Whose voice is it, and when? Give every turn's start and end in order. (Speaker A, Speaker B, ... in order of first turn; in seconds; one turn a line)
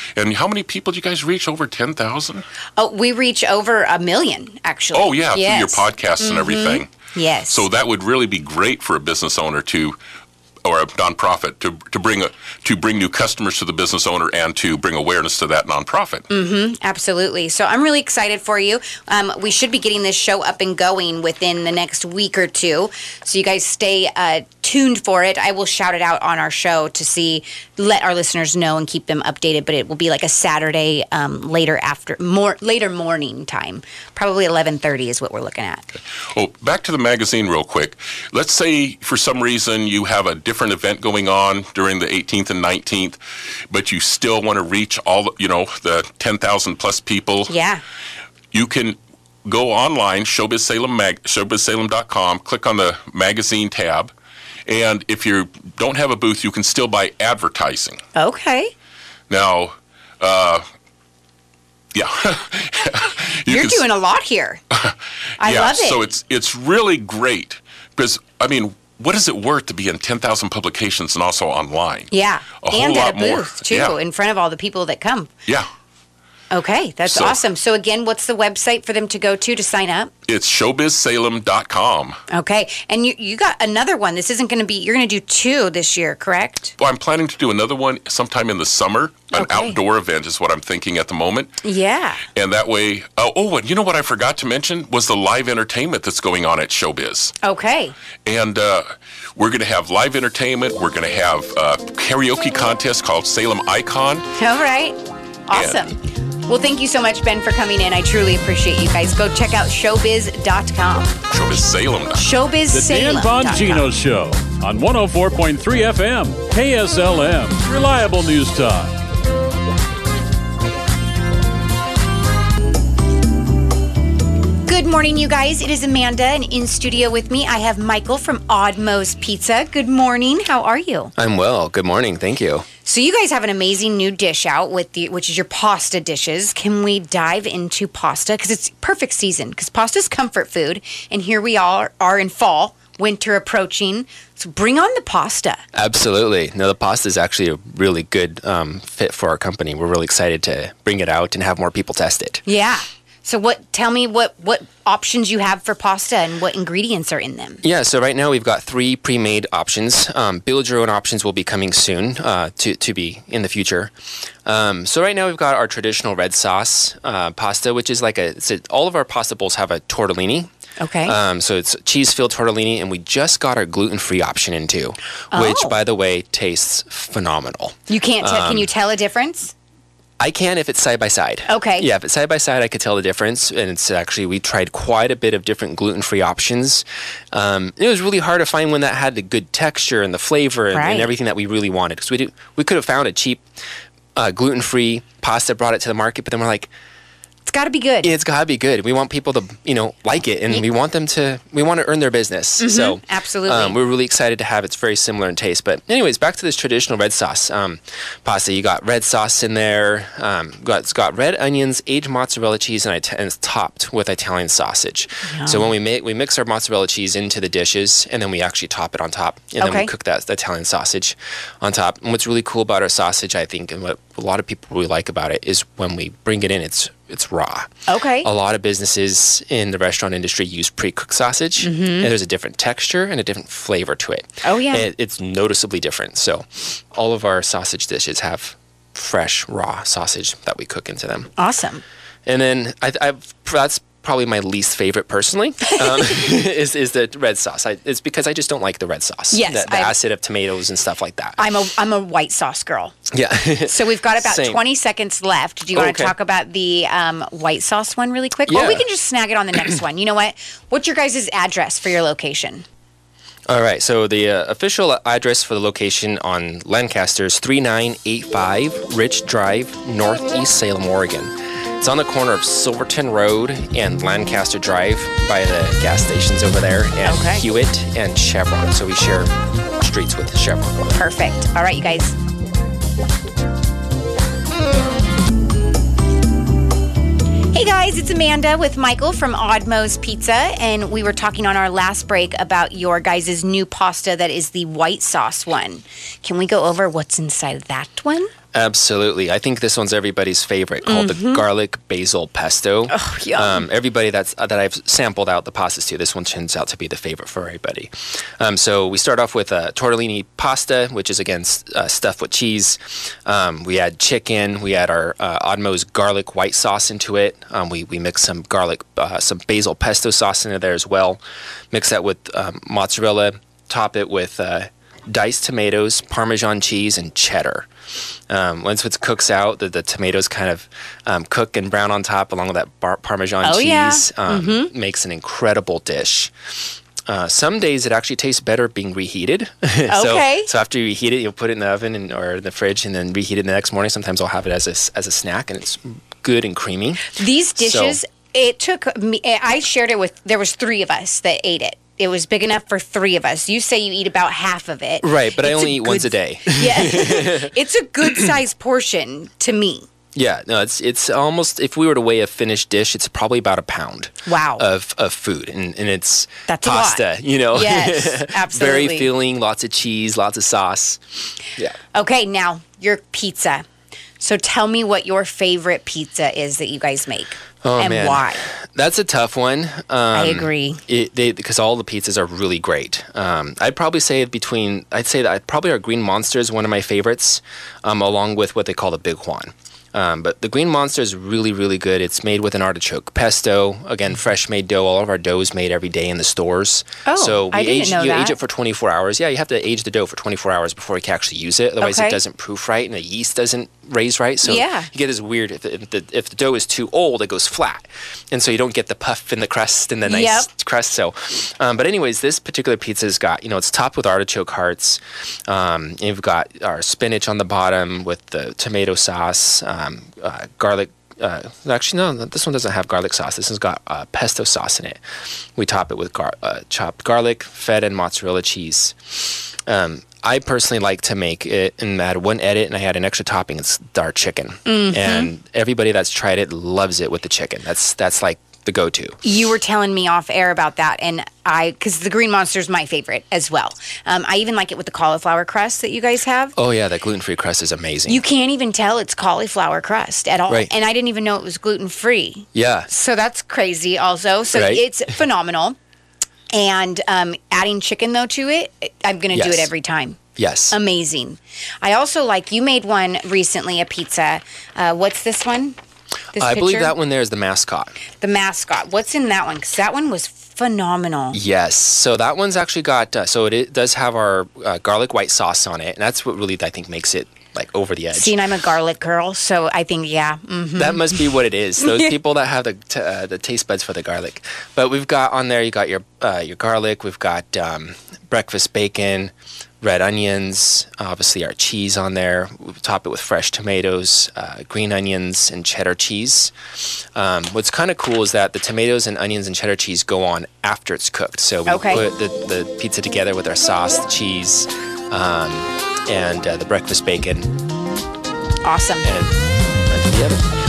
Speaker A: 0.2-2.5
Speaker B: 2.8-7.7
Speaker A: 4.9-6.9
Speaker A: 7.5-10.0
Speaker A: 10.6-16.3
Speaker B: 16.3-35.9
Speaker A: 36.3-43.2
Speaker A: 43.7-47.5
Speaker B: 47.5-47.8
Speaker A: 48.5-54.1
Speaker A: 54.7-58.0
Speaker B: 58.1-58.7
Speaker A: 59.3-60.6
Speaker A: 61.9-63.9
Speaker B: 63.5-64.6
Speaker A: 64.7-74.0
Speaker B: 65.4-66.0
Speaker B: 72.1-75.3
Speaker B: 76.5-80.1
Speaker A: 77.1-77.4
Speaker A: 80.3-82.2
Speaker B: 82.3-86.7
Speaker A: 86.8-91.5
Speaker B: 89.3-89.8
Speaker B: 91.6-92.2
Speaker A: 92.3-97.3
Speaker B: 97.4-98.0
Speaker A: 98.2-98.8
Speaker A: 99.4-104.2
Speaker B: 104.4-111.2
Speaker A: 105.5-105.9
Speaker A: 111.3-112.2
Speaker B: 112.2-113.9
Speaker C: 112.7-119.0
Speaker B: 124.7-131.1
Speaker D: 131.2-132.7
Speaker B: 132.8-145.6
Speaker D: 145.7-152.4
Speaker B: 152.5-157.6
Speaker D: 157.6-163.9
Speaker D: 164.5-170.5
Speaker B: 170.8-171.2
Speaker D: 171.1-178.7
Speaker B: 175.3-175.8
Speaker B: 177.9-179.5
Speaker D: 180.2-193.4
Speaker B: 181.5-181.9
Speaker B: 190.7-191.1
Speaker D: 194.2-196.7
Speaker B: 197.5-198.1
Speaker D: 198.0-227.7
Speaker B: 202.6-203.8
Speaker B: 215.3-215.7
Speaker B: 219.6-219.9
Speaker B: 227.9-228.3
Speaker D: 228.2-241.3
Speaker B: 231.6-232.1
Speaker B: 234.4-234.9
Speaker B: 241.4-241.8
Speaker D: 242.3-251.4
Speaker B: 249.3-250.0
Speaker B: 251.4-252.9
Speaker D: 253.1-254.6
Speaker B: 253.6-262.6
Speaker D: 255.7-256.1
Speaker D: 258.5-258.9
Speaker D: 263.5-281.0
Speaker B: 277.0-277.4
Speaker B: 280.9-282.2
Speaker B: 287.5-298.3
Speaker D: 298.5-321.2
Speaker B: 300.9-301.4
Speaker B: 302.9-303.7
Speaker D: 321.7-327.7
Speaker D: 328.3-336.3
Speaker B: 333.4-334.7
Speaker D: 337.1-348.0
Speaker B: 339.9-340.5
Speaker B: 347.1-359.9
Speaker D: 355.0-357.5
Speaker D: 360.1-371.0
Speaker B: 364.3-364.6
Speaker B: 366.5-369.1
Speaker B: 371.9-373.6
Speaker B: 374.2-378.4
Speaker D: 377.6-425.0
Speaker B: 380.1-380.8
Speaker B: 397.1-398.4
Speaker B: 401.8-402.2
Speaker B: 404.4-404.9
Speaker B: 410.1-410.5
Speaker D: 425.6-439.2
Speaker B: 434.7-435.3
Speaker B: 439.2-446.6
Speaker D: 446.6-448.2
Speaker B: 448.1-455.8
Speaker D: 452.5-452.9
Speaker D: 454.5-454.8
Speaker B: 456.5-460.2
Speaker D: 459.3-459.7
Speaker D: 460.4-460.8
Speaker B: 460.7-465.8
Speaker B: 466.3-466.9
Speaker D: 466.4-468.0
Speaker B: 468.2-471.4
Speaker D: 471.3-478.4
Speaker B: 478.1-482.1
Speaker D: 480.8-507.5
Speaker B: 501.7-502.1
Speaker B: 508.6-509.1
Speaker D: 509.0-510.5